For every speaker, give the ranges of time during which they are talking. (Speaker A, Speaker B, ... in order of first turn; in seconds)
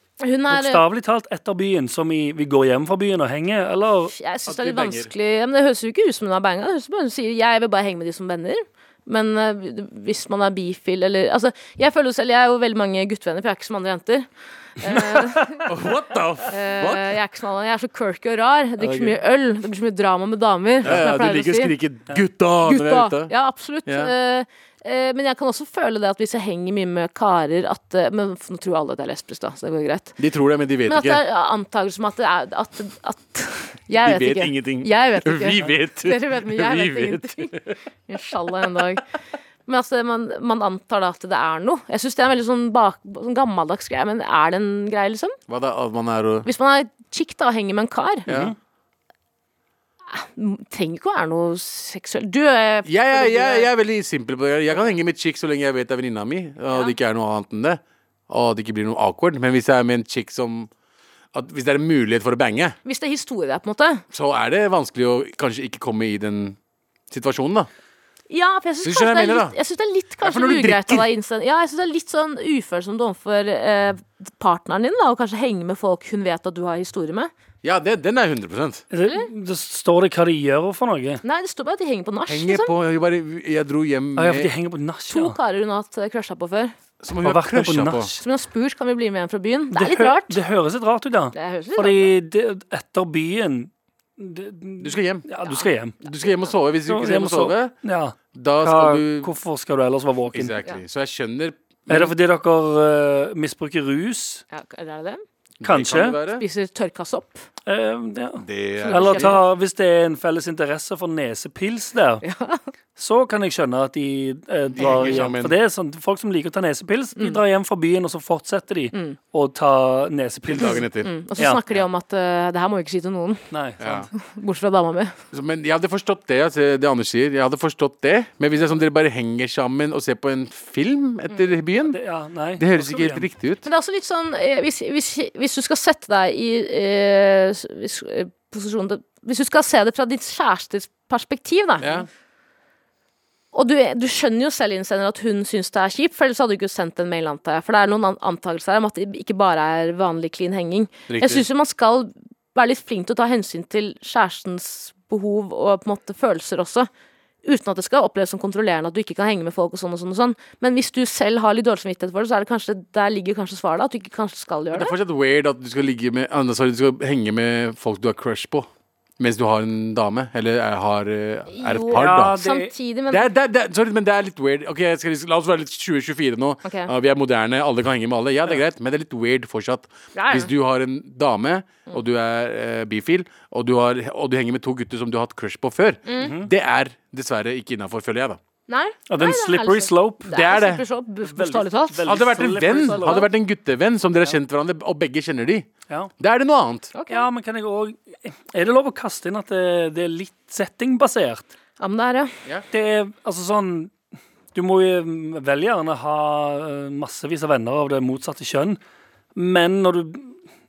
Speaker A: 0.2-0.8, 4.1-15.7, 16.5-21.7, 22.6-30.1, 30.9-39.0, 39.6-45.4, 46.4-48.3, 50.1-53.7, 62.8-64.0, 68.3-77.3, 81.2-82.7, 85.1-86.7, 88.2-90.4, 91.3-92.1, 95.4-95.7, 104.5-105.2, 106.3-107.4, 108.8-109.4, 112.2-112.6, 120.6-125.2, 133.6-142.0, 143.5-156.9, 157.4-164.9, 171.5-173.2, 176.6-176.9, 180.1-180.5, 186.1-186.3, 188.7-192.1, 192.8-193.2, 196.9-197.3, 201.8-202.3
Speaker B: 0.5-4.1, 18.8-19.1, 48.3-48.5, 78.9-81.2, 84.2-85.4, 87.2-88.2, 89.7-96.0, 96.9-100.5, 101.9-104.4, 105.6-106.2, 107.7-112.2, 113.0-120.8, 123.5-123.9, 131.8-133.3, 171.9-172.7, 186.2-186.5, 189.1-190.3, 191.2-193.3, 197.1-201.5, 202.7-203.9, 204.5-208.8, 209.3-210.3
Speaker C: 4.5-5.1, 15.6-17.1, 20.8-23.3, 23.9-24.1, 30.2-31.2, 33.9-37.7, 45.5-46.5, 48.3-48.5, 52.8-60.7, 61.3-62.8, 64.1-66.6, 67.1-67.7, 68.8-69.5, 70.2-71.0, 77.6-78.8, 82.3-84.5, 87.0-88.1, 94.8-95.2, 96.0-97.7, 98.3-99.3, 100.3-102.1, 105.6-106.4, 108.4-109.3, 114.8-115.5, 120.5-121.1, 123.8-124.1, 125.3-132.0, 132.6-133.7, 141.8-142.1, 151.1-151.4, 164.7-172.4, 173.1-188.4, 190.3-190.8, 192.0-195.7, 196.2-196.9